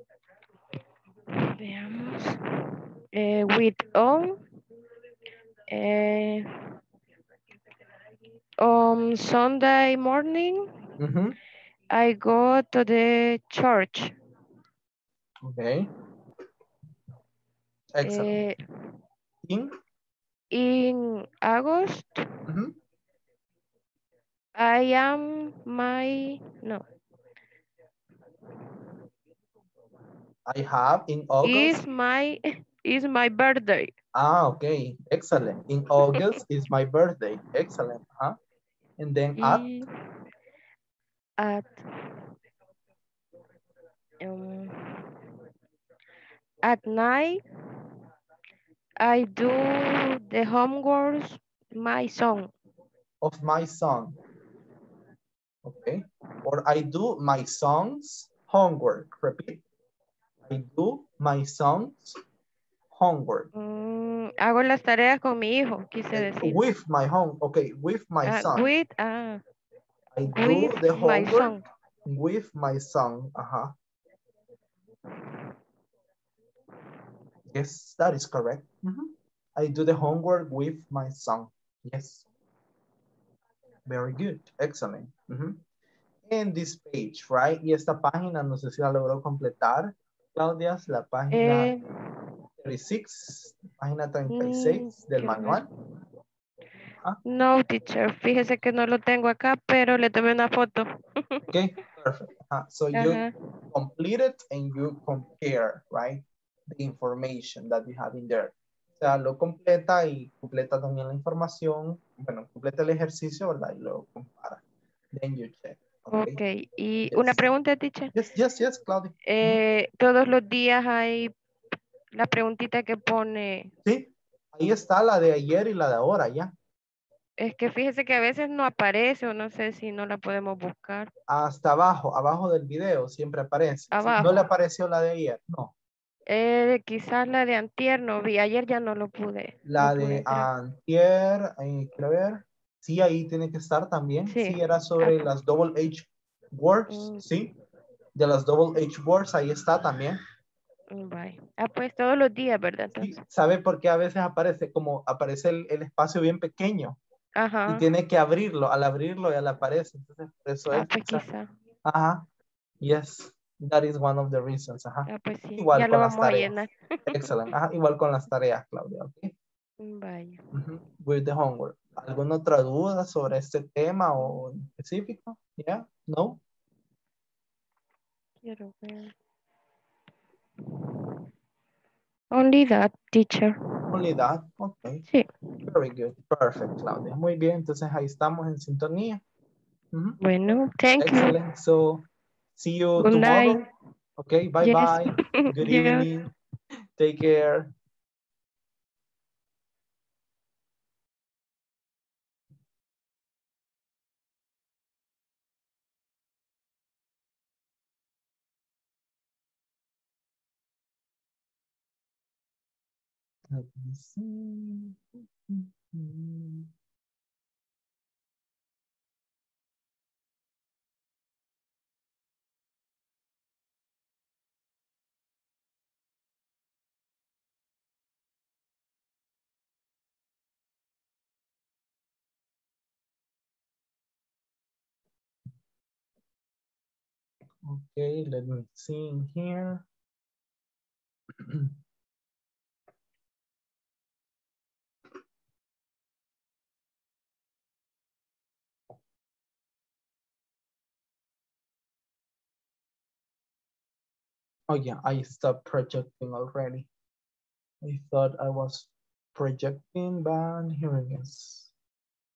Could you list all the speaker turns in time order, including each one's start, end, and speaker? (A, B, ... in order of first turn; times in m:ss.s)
0:01.3-0:02.5 A
0:03.1-0:04.4 A
0:05.7-0:06.5 A
0:08.6-0:10.7 A
0:11.0-0:11.4 B
0:11.9-0:14.1 A
0:15.4-0:15.9 B
0:17.9-0:18.4 B
0:18.0-0:18.6 A
0:19.5-0:19.7 B
0:20.5-0:22.3 A
0:22.5-0:22.7 B
0:24.6-0:26.8 A
0:30.5-0:31.8 B
0:31.4-0:33.9 A
0:34.2-0:38.4 B
0:36.1-0:36.4 A
0:39.0-0:39.7 B
0:39.4-0:39.9 A
0:41.4-0:42.2 A
0:44.2-0:45.1 A
0:46.6-0:47.4 A
0:49.0-0:52.5 A
0:53.2-0:54.2 B
0:55.6-0:59.6 B
1:00.5-1:02.2 B
1:02.9-1:03.5 B
1:03.6-1:06.6 A
1:06.1-1:08.7 B
1:08.2-1:09.4 A
1:10.1-1:11.5 B
1:10.3-1:11.6 A
1:12.1-1:13.7 B
1:17.5-1:22.2 B
1:23.9-1:25.6 B
1:26.3-1:31.7 B
1:31.3-1:32.0 A
1:32.6-1:35.7 B
1:34.3-1:35.7 A
1:37.3-1:41.4 A
1:41.5-1:54.6 B
1:42.9-1:43.3 A
1:55.1-1:56.4 B
1:56.1-1:58.1 A
1:57.1-1:57.5 B
1:58.1-1:59.6 B
1:59.3-2:01.3 A
2:02.2-2:03.7 A
2:03.8-2:06.5 B
2:07.4-2:11.1 A
2:11.3-2:15.7 B
2:13.9-2:14.5 A
2:16.3-2:20.5 A
2:19.6-2:27.5 B
2:24.3-2:25.2 A
2:26.9-2:27.2 A
2:28.2-2:30.2 B
2:30.9-2:33.2 A
2:33.0-2:37.0 B
2:37.4-2:37.9 A
2:37.7-2:41.2 B
2:40.7-2:41.5 A
2:41.9-2:42.2 B
2:42.8-2:49.3 B
2:45.1-2:47.5 A
2:49.8-2:50.4 A
2:50.5-2:56.4 B
2:58.4-2:59.1 A
3:00.7-3:01.0 A
3:02.3-3:03.6 A
3:03.9-3:05.0 B
3:05.7-3:09.2 B
3:09.9-3:10.2 B
3:10.2-3:11.4 A
3:11.0-3:12.1 B
3:12.6-3:13.7 B
3:13.0-3:13.7 A
3:14.2-3:16.3 B
3:14.6-3:16.1 A
3:17.0-3:17.7 B
3:33.5-3:36.7 B
3:57.6-3:59.8 B
4:01.4-4:01.8 B
4:14.7-4:16.9 B
4:17.8-4:21.7 B